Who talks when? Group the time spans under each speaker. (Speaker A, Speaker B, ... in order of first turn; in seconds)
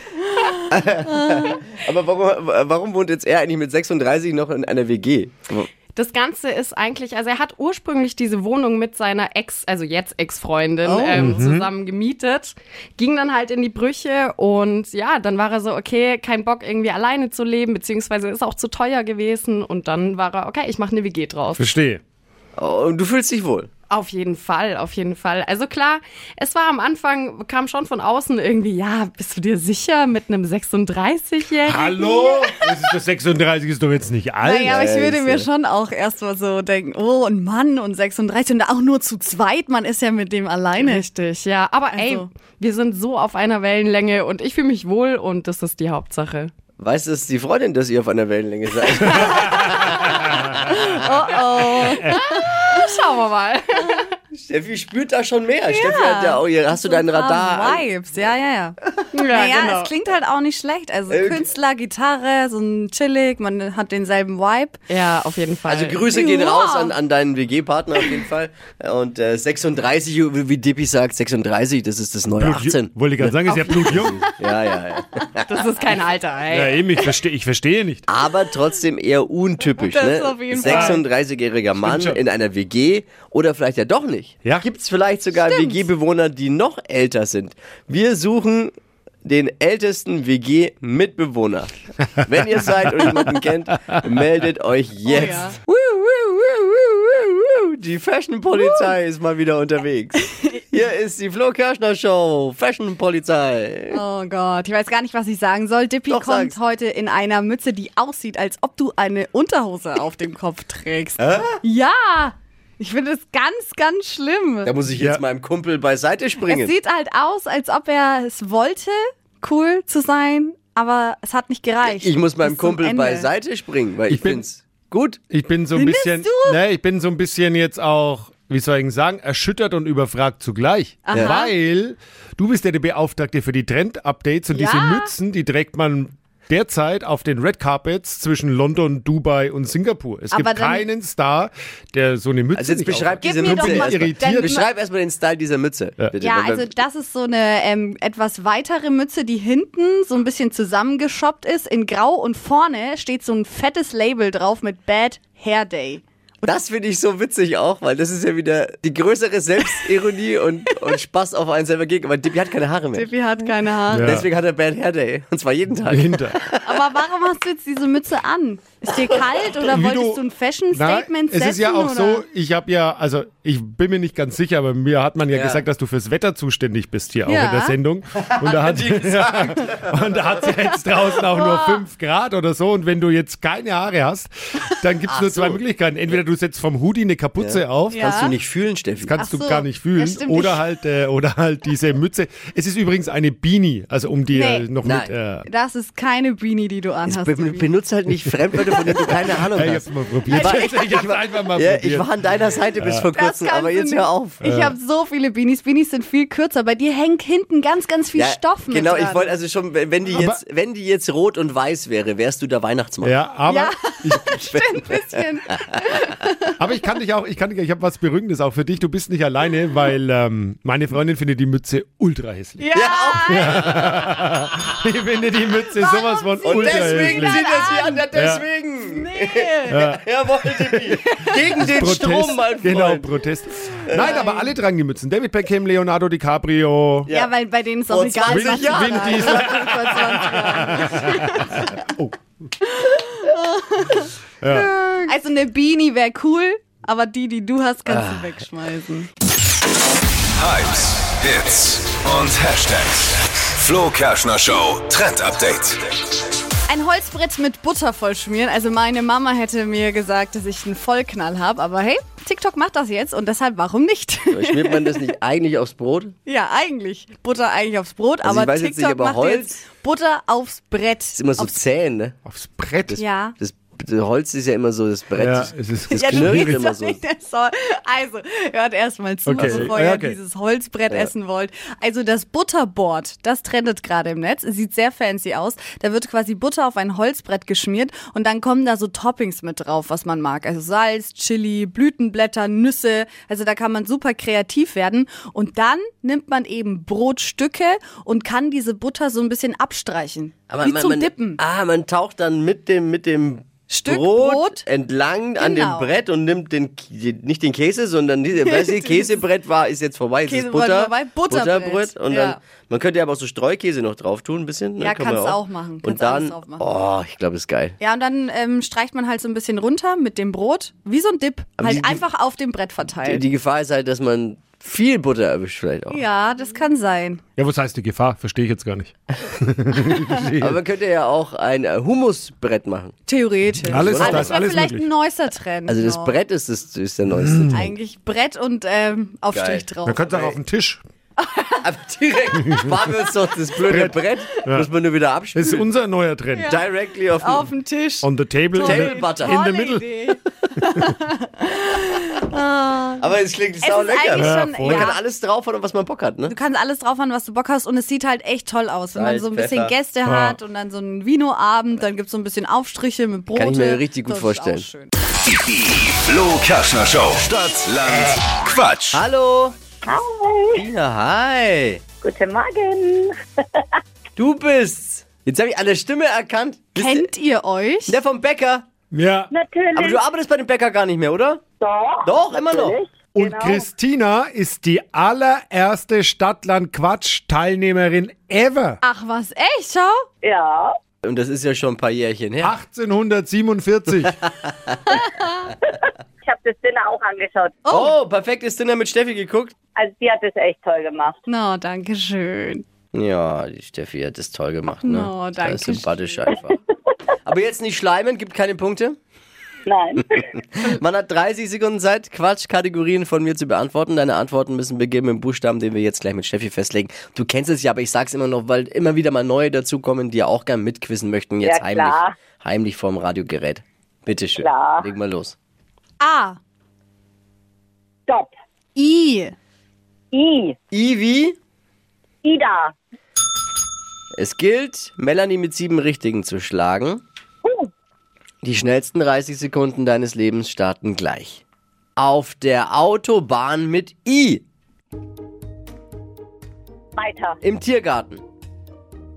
Speaker A: 0.7-5.7, 22.6-23.7, 34.6-35.5, 46.8-50.9, 54.4-57.9, 61.1-61.5, 65.7-75.5, 78.1-88.7, 89.2-104.0, 106.1-106.6, 111.2-111.6, 114.7-116.7, 121.8-125.2, 131.1-131.4, 142.6-146.7, 156.4-163.1, 164.0-166.6, 175.3-175.7, 178.3-179.8, 185.1-186.2, 187.4-189.2, 194.8-195.1, 197.1-204.4, 208.2-213.2, 214.5-214.9, 222.7-224.0, 226.4-233.2, 233.9-234.3, 237.1-237.3, 237.9-240.0, 247.9-248.3, 264.3-266.1, 268.2-269.6, 271.1-272.2, 272.9-277.0, 279.4-279.7, 300.5-317.8, 321.6-322.0, 323.0-326.0, 330.4-332.9, 333.7-334.4, 335.7-337.7, 339.3-340.4, 341.6-345.6, 346.5-347.5, 348.6-349.4, 353.0-356.4, 358.9-359.8, 363.4-364.7, 368.9-369.6, 370.5-371.8, 374.2-377.1, 377.9-378.7, 379.8-381.4, 382.0-382.8, 391.0-392.5, 394.3-394.8, 397.7-399.5, 402.9-406.6, 407.2-409.0, 410.4-425.4, 430.7-431.4, 434.1-437.0, 438.4-441.4, 442.0-444.4, 447.4-448.2
Speaker B: 1.2-1.6, 10.8-11.3, 32.0-32.6, 34.4-41.1, 41.9-42.3, 49.1-49.6, 50.7-52.8, 55.7-64.8, 66.1-67.0, 73.5-75.3, 79.8-81.0, 85.4-85.8, 95.1-95.6, 103.9-114.7, 116.4-123.3, 125.7-126.6, 131.1-131.5, 134.5-135.1, 140.3-140.9, 143.2-144.7, 146.2-156.0, 162.9-164.2, 166.6-172.2, 177.3-177.8, 181.3-181.9, 187.9-188.3, 189.2-190.7, 194.3-194.7, 195.5-197.7, 200.3-200.7, 203.1-209.4, 213.5-216.6, 222.6-223.6, 225.7-228.1, 228.9-229.9, 230.8-231.6, 234.0-234.5, 237.1-241.8, 242.7-244.1, 244.6-249.1, 256.7-265.1, 266.3-271.6, 273.0-273.4, 275.9-301.4, 303.7-304.7, 305.4-305.9, 308.4-309.2, 310.3-312.4, 314.8-316.7, 317.8-323.2, 325.9-327.2, 333.1-336.2, 337.5-340.1, 341.2-341.6, 346.3-355.0, 356.3-364.9, 376.8-378.0, 388.8-390.0, 397.6-397.9, 401.3-402.6, 404.9-406.4, 426.0-426.4, 428.8-429.4
Speaker C: 6.0-21.7, 23.9-31.9, 40.8-46.5, 52.0-54.1, 59.1-59.9, 64.9-66.1, 75.5-77.0
Speaker D: 11.2-11.7, 21.6-22.0, 31.6-34.8, 72.4-74.3, 76.5-78.0, 80.6-81.0, 81.8-82.2, 124.1-124.4, 125.3-144.5, 163.9-164.3, 165.9-166.4, 169.7-188.0, 189.0-195.5, 199.5-202.1, 202.8-203.1, 204.4-204.7, 213.0-214.4, 216.6-222.7, 223.3-227.4, 228.1-228.4, 229.7-230.1, 231.6-237.1, 238.3-242.2, 244.4-244.7, 272.3-273.0, 275.2-276.6, 279.3-280.2, 327.4-330.6, 333.7-334.9, 337.2-337.6, 339.9-340.8, 342.5-342.8, 343.7-344.7, 345.4-346.6, 348.0-349.9, 354.2-354.9, 360.1-360.4, 378.9-379.3, 383.1-388.8, 392.4-394.2
Speaker E: 250.4-255.8, 365.3-369.0
Speaker F: 369.9-370.7, 372.0-373.7, 379.3-380.0, 381.6-383.6, 390.2-390.7, 396.2-397.6, 399.8-401.2, 409.7-410.3, 421.4-422.1, 424.4-424.9, 430.1-430.6, 432.2-432.8, 437.4-437.7, 447.0-447.4